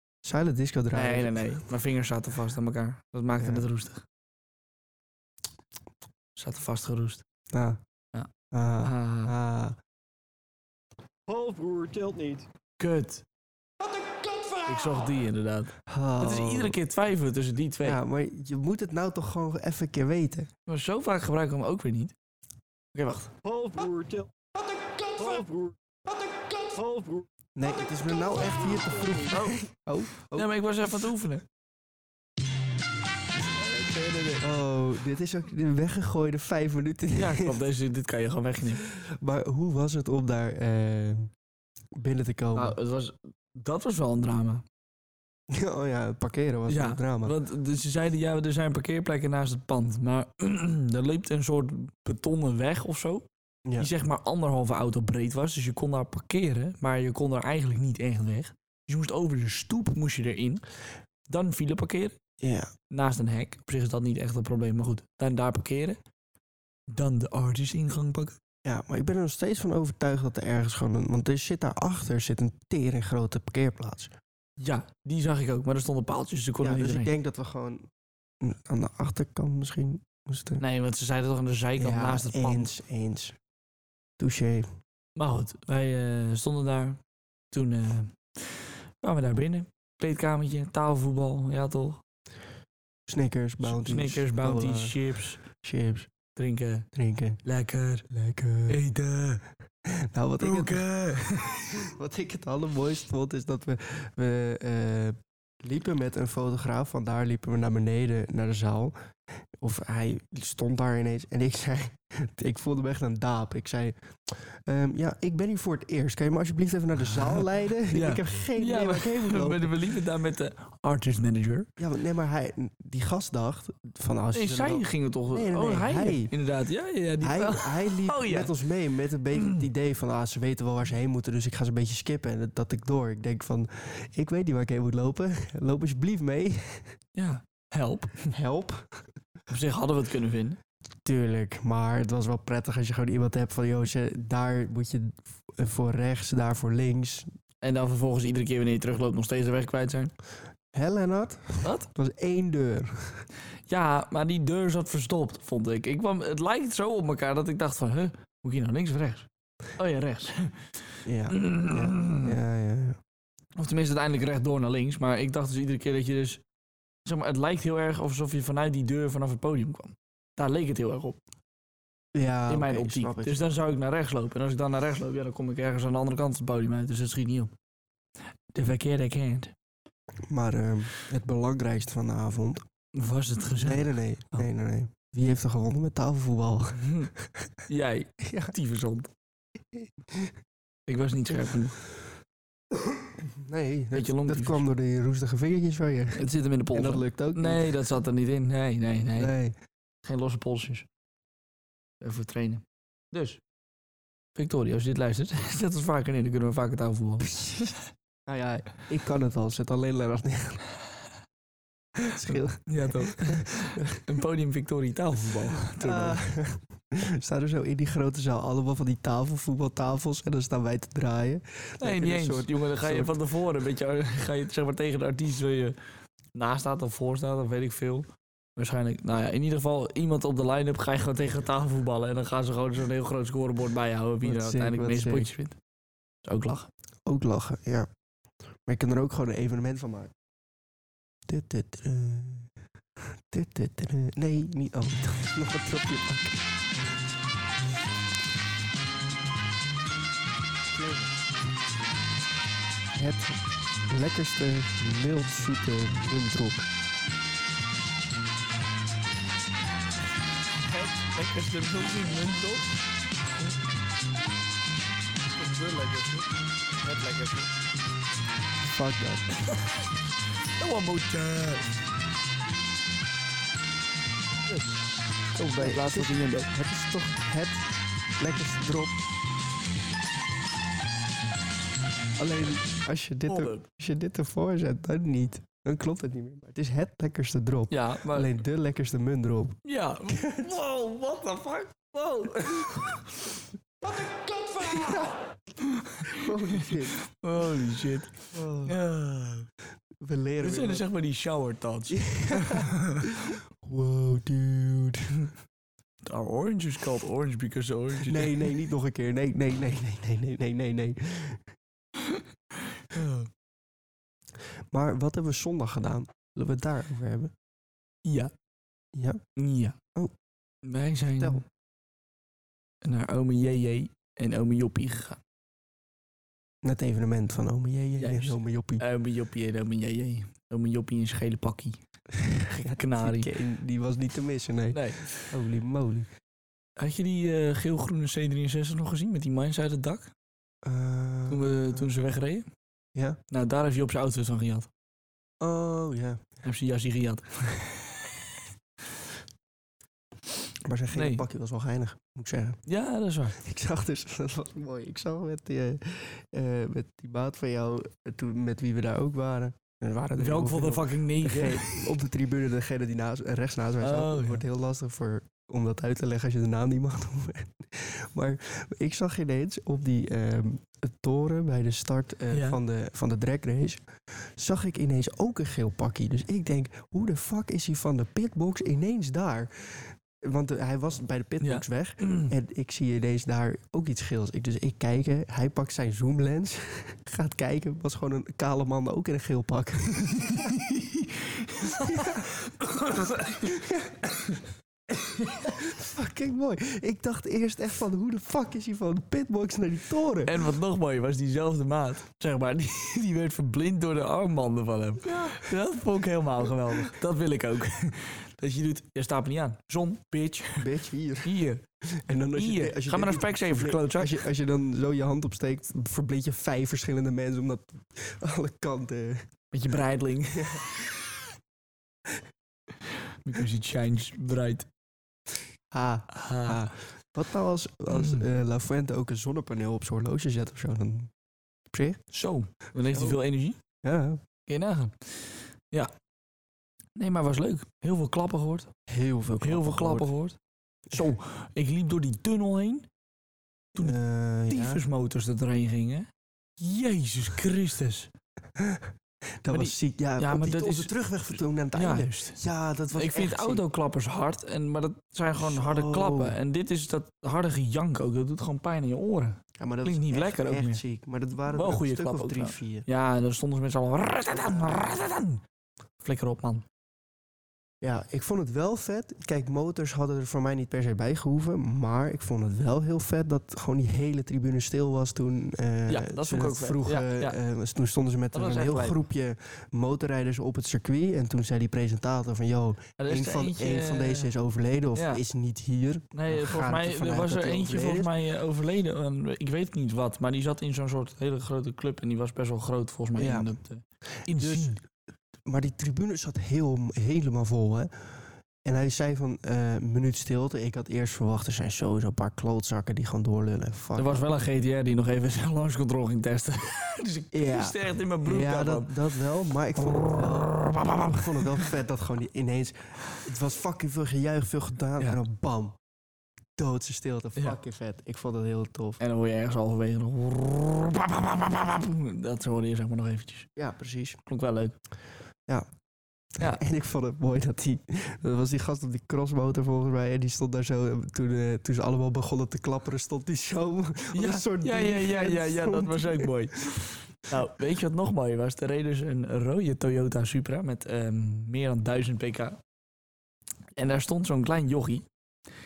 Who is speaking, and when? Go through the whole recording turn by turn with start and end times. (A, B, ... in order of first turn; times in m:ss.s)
0:00.2-0:01.5 A
0:00.9-0:04.0 B
0:03.4-0:03.7 A
0:06.4-0:07.2 B
0:07.5-0:07.8 A
0:08.5-0:09.8 A
0:08.8-0:09.3 B
0:11.3-0:12.5 C
0:12.8-0:13.2 B
0:14.6-0:18.0 B
0:15.9-0:16.8 A
0:17.8-0:20.5 A
0:20.7-0:22.1 B
0:22.9-0:23.3 B
0:23.4-0:24.3 C
0:24.9-0:27.3 C
0:27.6-0:30.5 A
0:29.3-0:29.6 B
0:30.3-0:31.4 B
0:33.6-0:34.4 B
0:34.4-0:37.6 A
0:37.2-0:38.8 B
0:38.8-0:41.3 A
0:42.0-0:42.8 A
0:42.6-0:44.6 B
0:45.5-0:47.4 A
0:46.7-0:53.3 B
0:53.8-1:00.6 B
1:01.3-1:02.2 B
1:02.4-1:02.7 A
1:02.9-1:06.0 B
1:06.9-1:08.4 B
1:08.6-1:14.1 A
1:14.6-1:17.1 B
1:16.6-1:17.9 A
1:18.4-1:20.6 A
1:20.6-1:22.7 B
1:21.8-1:23.4 A
1:24.2-1:24.7 A
1:25.2-1:27.0 B
1:27.5-1:32.0 B
1:33.1-1:36.1 A
1:33.6-1:35.4 B
1:36.4-1:36.9 B
1:36.9-1:37.4 A
1:37.4-1:38.1 B
1:38.1-1:38.8 A
1:38.7-1:39.4 B
1:39.9-1:40.9 A
1:40.4-1:41.8 B
1:41.8-1:48.9 A
1:49.6-1:59.8 A
1:57.2-2:01.7 B
2:01.8-2:06.3 A
2:04.3-2:08.5 B
2:07.2-2:17.0 A
2:09.4-2:09.6 B
2:17.2-2:18.2 B
2:18.3-2:19.0 A
2:19.5-2:20.6 B
2:21.0-2:27.3 A
2:27.6-2:30.1 B
2:30.7-2:33.2 A
2:33.7-2:40.6 B
2:41.0-2:43.0 A
2:41.3-2:42.3 B
2:43.6-2:46.4 B
2:47.0-2:51.2 B
2:52.2-2:53.5 A
2:52.5-2:57.5 B
2:58.5-2:59.5 B
3:00.3-3:02.6 A
3:03.0-3:04.5 B
3:03.6-3:07.5 A
3:06.8-3:07.1 B
3:07.7-3:09.1 B
3:08.2-3:08.5 A
3:09.8-3:10.3 A
3:10.9-3:11.8 B
3:13.4-3:17.8 A
3:13.9-3:14.6 B
3:16.2-3:19.3 B
3:19.2-3:19.6 A
3:20.0-3:20.9 B
3:22.0-3:23.4 B
3:24.4-3:27.3 B
3:27.3-3:27.8 A
3:28.3-3:30.6 A
3:32.0-3:34.1 A
3:32.2-3:36.2 B
3:35.7-3:43.1 A
3:41.8-3:45.8 B
3:46.4-3:55.6 B
3:54.2-3:55.3 A
3:56.2-3:56.7 B
3:57.1-3:57.9 A
3:58.7-4:00.1 A
4:01.3-4:02.5 A
4:03.3-4:06.4 A
4:13.0-4:16.6 A
4:20.6-4:22.7 B
4:25.3-4:27.6 B
4:28.6-4:29.3 A
4:30.6-4:31.7 B
4:34.5-4:34.8 B
4:35.4-4:36.5 B
4:35.6-4:37.7 A
4:38.2-4:39.0 A
4:42.2-4:50.5 A
4:43.3-4:43.7 B
4:47.7-4:48.3 B
4:49.6-4:53.4 B
4:54.6-4:55.1 B
4:54.7-4:55.1 A
4:55.6-4:59.5 B
4:56.0-4:57.0 A
4:58.3-4:58.7 A
5:00.0-5:00.9 A
5:00.4-5:03.1 B
5:01.9-5:05.3 A
5:06.0-5:08.6 B
5:08.0-5:11.4 A
5:12.0-5:13.3 B
5:14.7-5:17.3 A
5:18.0-5:18.3 B
5:18.9-5:19.2 A
5:19.4-5:19.8 B
5:20.6-5:21.4 B
5:21.2-5:21.4 A
5:22.8-5:25.2 B
5:26.6-5:28.8 A
5:28.0-5:31.8 B
5:32.2-5:36.1 A
5:32.8-5:33.3 B
5:34.7-5:35.3 B
5:36.8-5:40.1 B
5:40.6-5:41.9 A
5:41.3-5:42.5 B
5:43.3-5:44.7 B
5:45.4-5:46.3 A
5:46.4-5:48.2 B
5:50.6-5:52.6 A
5:50.9-5:51.2 B
5:52.7-5:53.4 B
5:53.4-6:30.5 A
6:00.2-6:01.9 B
6:03.8-6:04.4 B
6:12.3-6:12.6 B
6:21.4-6:22.3 B
6:30.1-6:35.6 B
6:31.7-6:32.3 A
6:33.4-6:34.0 A
6:35.6-6:40.4 A
6:40.2-6:50.7 B
6:45.1-6:45.5 A
6:50.6-6:59.3 A
6:51.2-6:51.6 B
6:52.4-6:54.2 B
6:59.5-7:01.2 B
7:00.3-7:00.6 A
7:03.2-7:04.7 B
7:05.7-7:11.1 A
7:06.1-7:06.7 B
7:07.9-7:08.2 B
7:11.7-7:12.0 A
7:12.1-7:13.6 B
7:12.9-7:13.2 A
7:13.8-7:14.2 A
7:14.5-7:15.9 B
7:17.0-7:18.7 B
7:18.9-7:20.1 A
7:19.4-7:20.4 B
7:20.9-7:22.9 B
7:23.8-7:24.8 A
7:24.5-7:28.1 B
7:28.6-7:28.9 A
7:29.4-7:33.6 A
7:29.5-7:30.9 B
7:31.8-7:32.4 B
7:32.9-7:40.8 B
7:35.4-7:36.4 A
7:39.6-7:42.9 A
7:41.5-7:45.4 B
7:46.0-7:46.6 B
7:47.8-8:08.1 A
7:55.9-7:57.4 B
7:58.3-7:59.0 B
8:03.0-8:04.3 B
8:05.0-8:05.2 B
8:06.1-8:14.8 B
8:13.2-8:13.5 A
8:14.2-8:14.8 A
8:15.5-8:18.1 A
8:18.6-8:24.2 A
8:24.0-8:29.0 B
8:27.3-8:35.8 A
8:29.8-8:31.7 B
8:36.6-8:39.0 A
8:39.0-8:43.5 B
8:43.6-8:44.2 A
8:44.3-8:44.8 B
8:46.4-8:56.8 A
8:54.1-9:02.6 B
9:03.8-9:05.1 B